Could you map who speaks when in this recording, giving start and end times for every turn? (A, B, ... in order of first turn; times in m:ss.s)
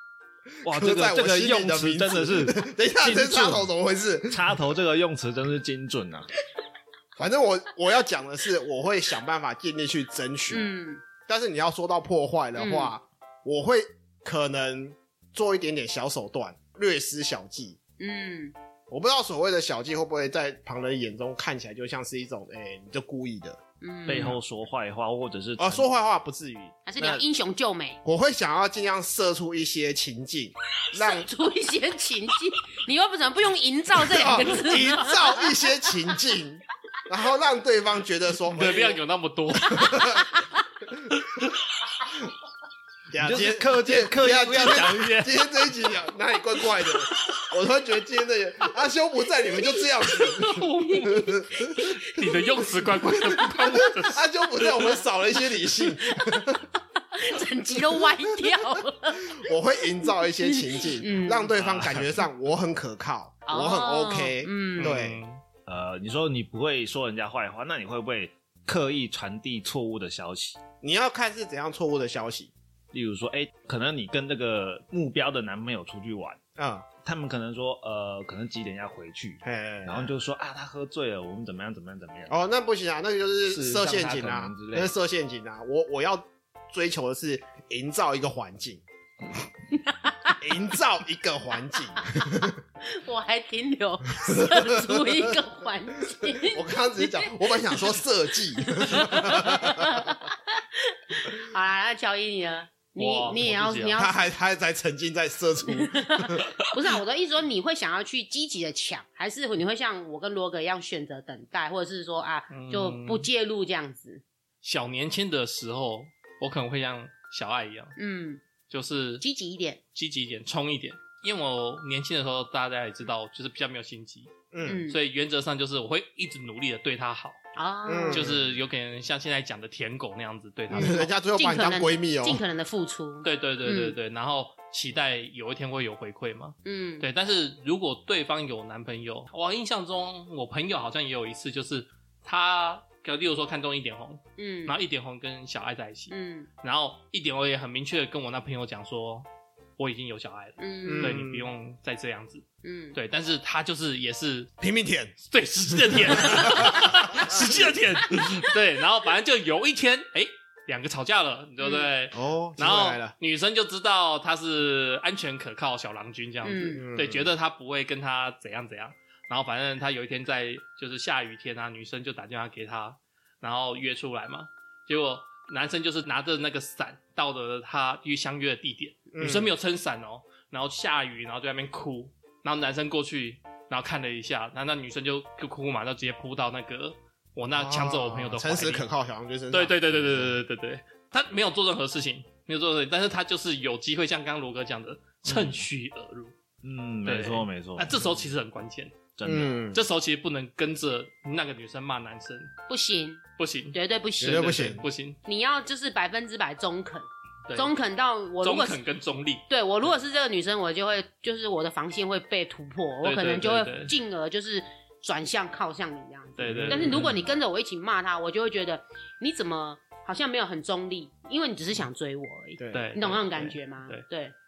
0:00.6-0:03.7 A
0:00.6-0:04.6 B
0:04.3-0:06.3 A
0:07.2-0:10.7 B
0:10.5-0:11.0 C
0:11.2-0:17.8 B
0:12.6-0:12.9 C
0:18.0-0:18.5 C
0:18.9-0:23.6 B
0:23.8-0:24.4 C
0:24.0-0:25.9 A
0:25.6-0:27.2 B
0:26.8-0:28.0 C
0:28.0-0:31.3 B
0:30.9-0:35.3 C
0:34.0-0:39.0 B
0:38.5-0:40.1 D
0:39.6-0:40.3 B
0:40.2-0:40.5 C
0:43.1-0:51.7 B
0:43.2-0:45.3 A
0:50.4-0:51.2 D
0:50.5-0:52.4 C
0:52.0-0:54.9 D
0:53.3-0:56.6 B
0:57.1-0:59.4 C
0:59.3-1:05.2 B
1:00.0-1:01.5 C
1:01.6-1:02.1 A
1:03.5-1:05.0 C
1:04.8-1:05.4 D
1:05.6-1:10.6 A
1:10.8-1:12.5 B
1:12.9-1:16.4 A
1:16.6-1:16.9 B
1:17.0-1:22.3 A
1:19.4-1:20.1 B
1:22.3-1:28.8 B
1:23.5-1:24.9 A
1:29.8-1:30.4 C
1:30.4-1:32.6 B
1:32.8-1:37.9 C
1:34.2-1:35.4 B
1:36.2-1:40.1 B
1:38.6-1:44.2 C
1:43.0-1:44.0 D
1:44.0-1:46.5 B
1:45.7-1:54.2 C
1:52.5-1:53.3 D
1:54.6-1:57.9 D
1:58.0-1:58.4 C
1:58.7-1:59.2 D
1:59.2-1:59.8 C
1:59.9-2:04.3 D
2:04.5-2:04.8 B
2:04.6-2:05.0 C
2:04.9-2:07.4 D
2:07.5-2:08.2 C
2:07.9-2:08.5 B
2:08.1-2:11.1 D
2:10.7-2:12.4 B
2:10.7-2:13.9 C
2:13.2-2:29.3 D
2:16.6-2:17.0 C
2:24.4-2:24.8 C
2:26.1-2:26.5 C
2:29.8-2:34.5 D
2:30.6-2:31.2 C
2:30.9-2:31.5 B
2:32.6-2:33.0 C
2:34.6-2:35.1 B
2:35.3-3:08.9 D
2:36.0-2:37.4 B
2:41.6-2:41.9 C
2:42.1-2:43.1 B
2:46.4-2:46.8 C
2:46.8-2:47.3 B
2:59.1-2:59.5 B
3:07.5-3:10.4 B
3:09.5-3:16.3 D
3:16.6-3:18.0 A
3:17.0-3:19.1 D
3:19.2-3:19.6 A
3:19.2-3:19.8 B
3:19.7-3:22.5 D
3:22.7-3:23.2 C
3:23.4-3:25.2 D
3:23.7-3:24.5 C
3:24.2-3:24.8 B
3:25.2-3:28.8 C
3:27.5-3:27.7 D
3:28.4-3:29.4 D
3:29.5-3:44.3 C
3:33.0-3:33.9 D
3:36.4-3:37.1 D
3:36.5-3:37.1 B
3:42.6-3:43.0 B
3:42.7-3:44.0 D